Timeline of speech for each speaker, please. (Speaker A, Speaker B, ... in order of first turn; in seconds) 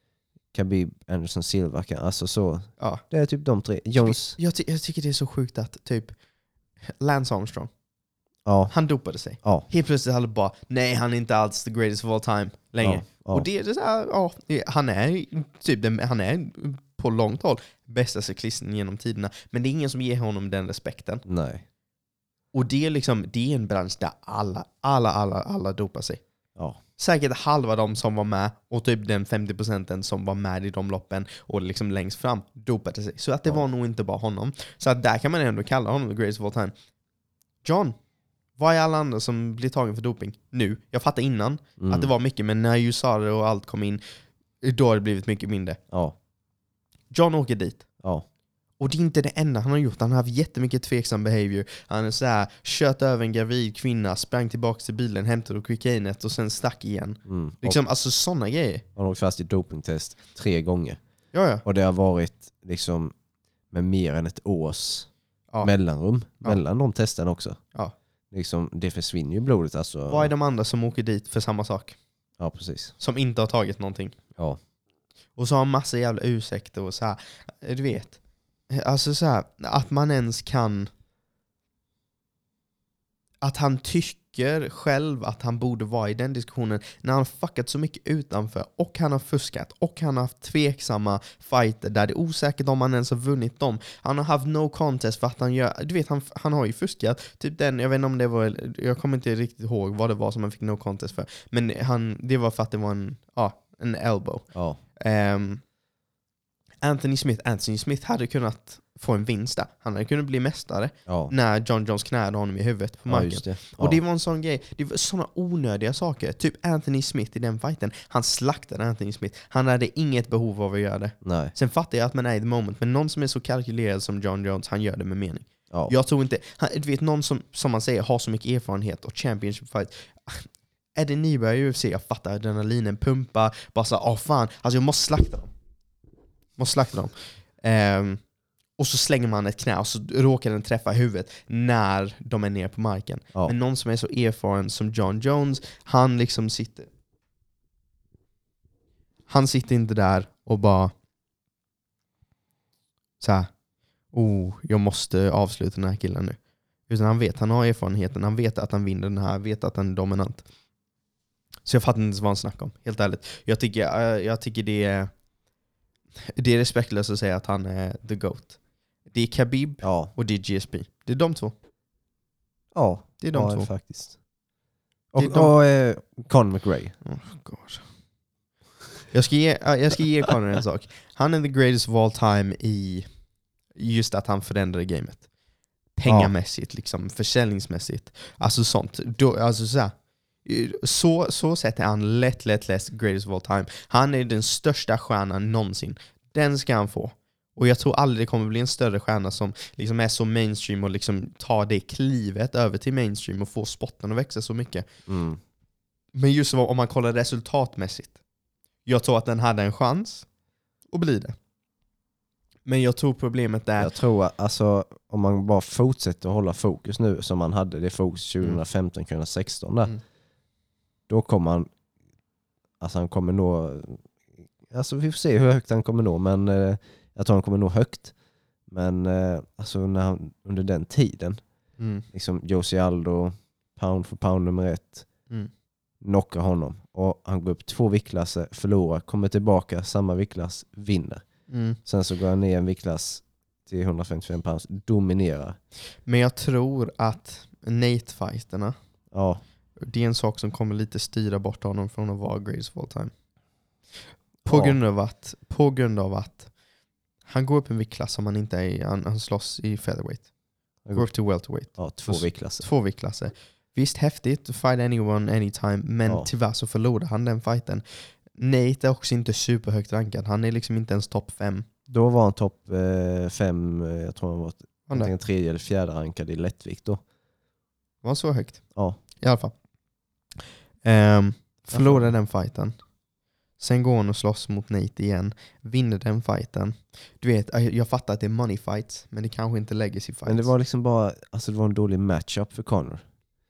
Speaker A: 0.5-4.4, 8.4-8.7, 9.4-9.7, 12.8-13.5, 21.2-21.6, 41.8-42.1, 45.9-46.1, 57.2-57.8, 59.0-61.0, 61.6-63.1, 63.7-65.1, 65.6-67.6, 68.3-70.3, 72.4-72.9, 104.5-104.8, 111.1-111.3, 113.1-114.0, 121.2-121.5, 169.8-170.1, 172.7-174.2, 175.1-176.9, 186.1-186.3, 205.1-205.4, 213.8-219.9, 221.1-221.7, 222.8-224.1, 224.7-228.1, 228.7-231.4, 232.1-235.1, 236.0-241.2, 241.8-245.6, 249.1-249.4, 254.4-254.8, 260.9-261.1, 261.7-262.6, 271.9-277.0, 281.7-282.1, 290.2-293.0
Speaker B: 4.0-6.1, 7.0-7.7, 8.7-21.2, 22.5-26.2, 27.0-36.7, 37.6-38.0, 38.6-44.0, 44.6-45.8, 47.1-47.9, 48.8-58.8, 61.3-61.6, 70.1-72.0, 73.0-74.2, 75.3-78.2, 78.7-80.9, 83.4-105.6, 106.8-135.5, 136.6-138.2, 138.8-146.9, 149.3-150.9, 153.2-153.5, 154.1-156.4, 156.9-160.4, 161.6-165.1, 166.2-168.6, 169.1-171.6, 173.2-173.7, 175.2-175.5, 177.0-177.8, 179.1-183.1, 183.8-185.2, 185.9-189.9, 190.4-204.8, 206.1-208.2, 208.8-210.2, 210.9-211.3, 212.7-213.9, 231.8-232.0, 241.5-241.8, 246.0-248.7, 249.8-253.1, 254.4-256.5, 257.3-260.3, 260.9-271.6, 278.0-279.5, 280.8-282.7, 283.6-290.5